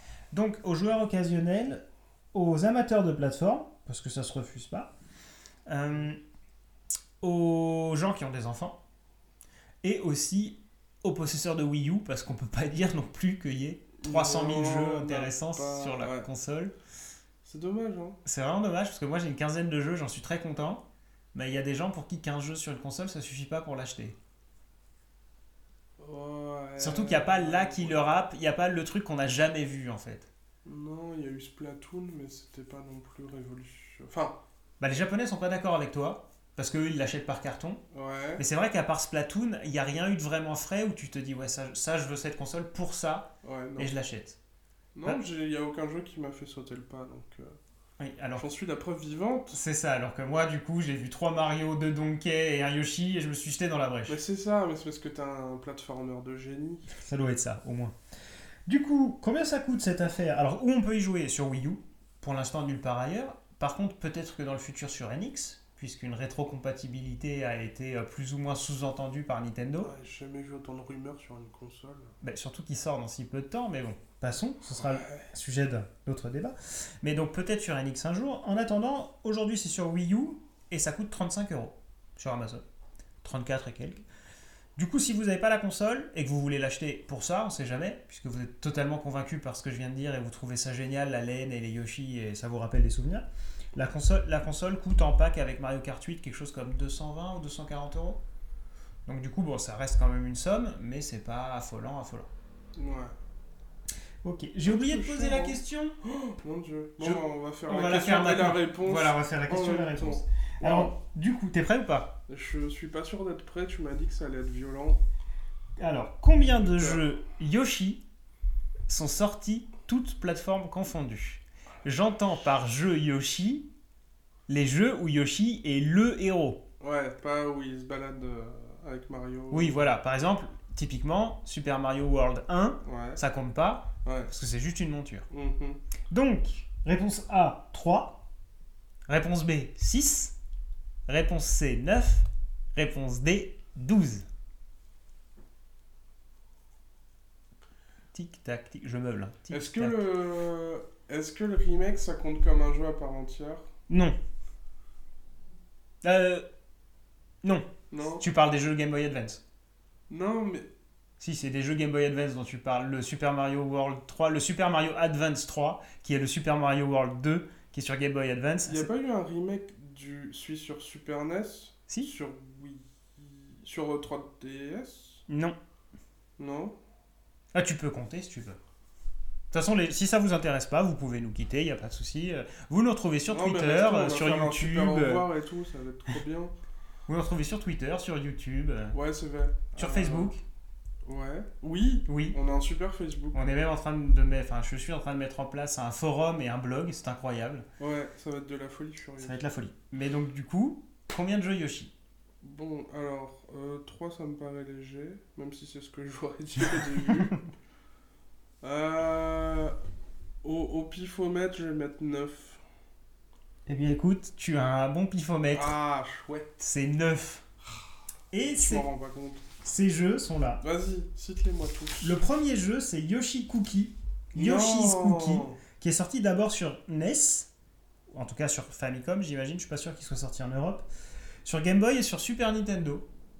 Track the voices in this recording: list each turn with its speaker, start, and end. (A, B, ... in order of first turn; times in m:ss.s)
0:00.3-0:01.8 A
0:02.3-0:04.9 A
0:05.7-0:06.2 A
0:07.2-0:08.8 A
0:09.8-0:16.7 A
0:14.0-0:16.3 B
0:17.4-0:18.2 B
0:18.2-0:24.2 A
0:26.0-0:28.1 B
0:26.8-0:30.3 A
0:30.6-0:34.4 B
0:34.8-0:37.8 A
0:37.9-0:38.4 B
0:38.4-0:44.4 A
0:43.4-0:43.9 B
0:44.9-0:47.6 B
0:48.0-0:48.4 A
0:48.3-0:49.6 B
0:49.5-0:54.2 A
0:54.1-0:56.9 B
0:56.9-0:57.9 A
0:58.7-1:09.9 A
1:09.8-1:12.1 B
1:12.2-1:22.6 A
1:14.8-1:15.3 B
1:23.2-1:24.0 A
1:24.8-1:38.2 A
1:39.1-1:42.3 A
1:42.8-1:43.1 B
1:44.2-1:46.0 A
1:44.6-1:50.9 B
1:47.0-1:52.1 A
1:52.3-1:55.0 B
1:55.8-1:58.0 A
1:56.6-1:57.0 B
1:58.9-2:03.7 A
2:04.5-2:06.6 A
2:06.8-2:09.8 B
2:09.5-2:15.3 A
2:12.8-2:13.2 B
2:14.0-2:14.3 B
2:15.3-2:15.8 B
2:16.1-2:18.2 A
2:19.1-2:20.4 A
2:21.1-2:24.3 A
2:28.1-2:30.0 A
2:29.5-2:33.7 B
2:33.9-2:34.2 A
2:36.0-2:36.4 A
2:37.9-2:38.2 B
2:38.2-2:39.4 A
2:40.1-2:40.7 B
2:41.2-2:48.9 A
2:48.6-2:55.2 B
2:55.3-2:55.6 A
2:56.4-2:56.7 B
2:57.5-2:58.6 A
2:59.5-3:05.3 A
3:03.3-3:06.5 B
3:07.1-3:09.0 A
3:08.9-3:10.3 B
3:09.8-3:10.4 A
3:11.0-3:13.4 B
3:12.1-3:12.4 A
3:13.3-3:17.6 A
3:17.8-3:19.4 B
3:19.2-3:21.9 A
3:22.4-3:27.4 B
3:28.6-3:29.8 B
3:30.4-3:32.6 B
3:33.7-3:35.8 A
3:35.5-3:36.5 B
3:36.6-3:37.4 A
3:38.3-3:38.8 A
3:38.4-3:39.4 B
3:39.6-3:40.6 A
3:40.6-3:42.2 B
3:42.0-3:47.5 A
3:44.3-3:45.6 B
3:48.1-3:50.8 A
3:51.4-3:53.1 A